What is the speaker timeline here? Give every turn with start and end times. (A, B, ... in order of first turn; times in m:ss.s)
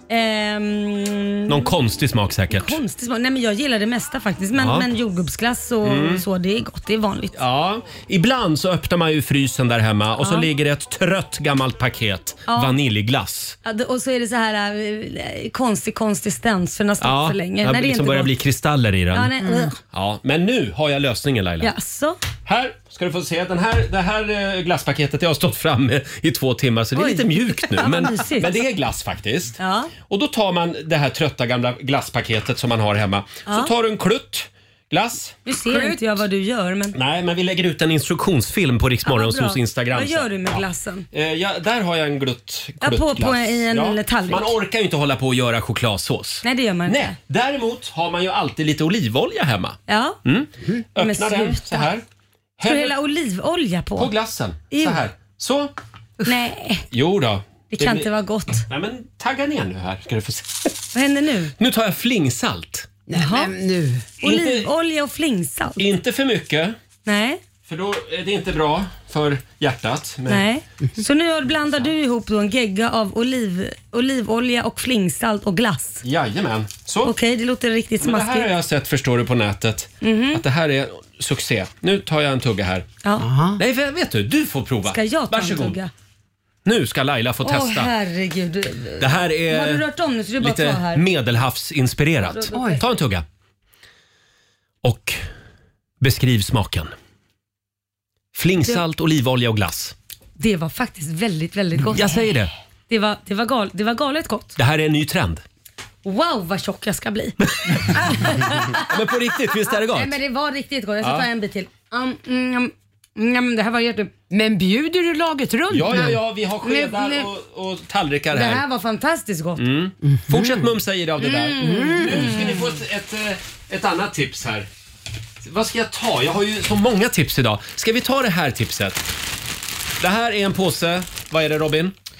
0:00.1-0:01.7 A
0:01.5-0:02.8 B
0:02.5-0:07.4 A
0:04.6-0:04.9 B
0:05.8-0:06.2 B
0:07.4-0:13.6 B
0:10.2-0:10.5 A
0:12.5-0:12.7 A
0:13.6-0:18.3 A
0:17.0-0:19.3 B
0:19.1-0:19.8 A
0:19.4-0:19.7 C
0:19.9-0:21.7 B
0:21.6-0:22.2 A
0:22.4-0:35.4 B
0:27.0-0:28.6 A
0:29.6-0:29.9 A
0:35.5-0:37.0 A
0:35.7-0:36.0 C
0:36.9-0:52.0 B
0:39.1-0:41.1 A
0:42.8-0:44.5 A
0:46.4-0:47.2 A
0:49.9-0:50.2 A
0:51.0-0:51.9 A
0:52.6-0:53.0 B
0:52.6-0:54.1 A
0:54.0-0:55.7 B
0:54.7-0:55.0 A
0:56.3-0:56.9 A
0:56.9-0:58.1 B
0:57.7-0:58.6 A
0:58.7-1:00.8 B
1:00.9-1:01.5 A
1:01.6-1:02.9 B
1:03.1-1:04.1 C
1:03.1-1:03.5 A
1:04.2-1:05.8 A
1:04.2-1:04.7 B
1:05.8-1:06.8 B
1:07.0-1:07.4 A
1:07.7-1:10.5 B
1:10.3-1:16.0 A
1:16.0-1:17.1 B
1:17.0-1:18.5 A
1:18.0-1:22.9 B
1:20.0-1:20.4 A
1:23.2-1:23.6 C
1:23.6-1:25.8 B
1:24.9-1:25.9 A
1:26.6-1:27.9 B
1:27.4-1:31.1 A
1:29.0-1:29.9 B
1:30.4-1:33.2 B
1:32.2-1:32.8 A
1:32.5-1:32.8 C
1:34.8-1:35.2 B
1:36.0-1:36.9 B
1:38.4-1:40.0 B
1:40.4-1:42.2 A
1:41.9-1:42.5 B
1:42.9-1:44.6 A
1:44.6-1:45.4 B
1:46.0-1:48.8 A
1:47.6-1:48.0 B
1:48.7-1:50.2 B
1:49.9-1:54.1 A
1:51.0-1:51.3 B
1:54.2-1:56.2 C
1:55.7-1:58.6 B
1:56.6-1:57.3 A
1:58.3-1:59.6 A
1:59.6-2:04.7 B
2:00.1-2:00.7 C
2:01.2-2:02.7 A
2:01.6-2:02.4 C
2:05.4-2:09.0 B
2:10.0-2:11.9 B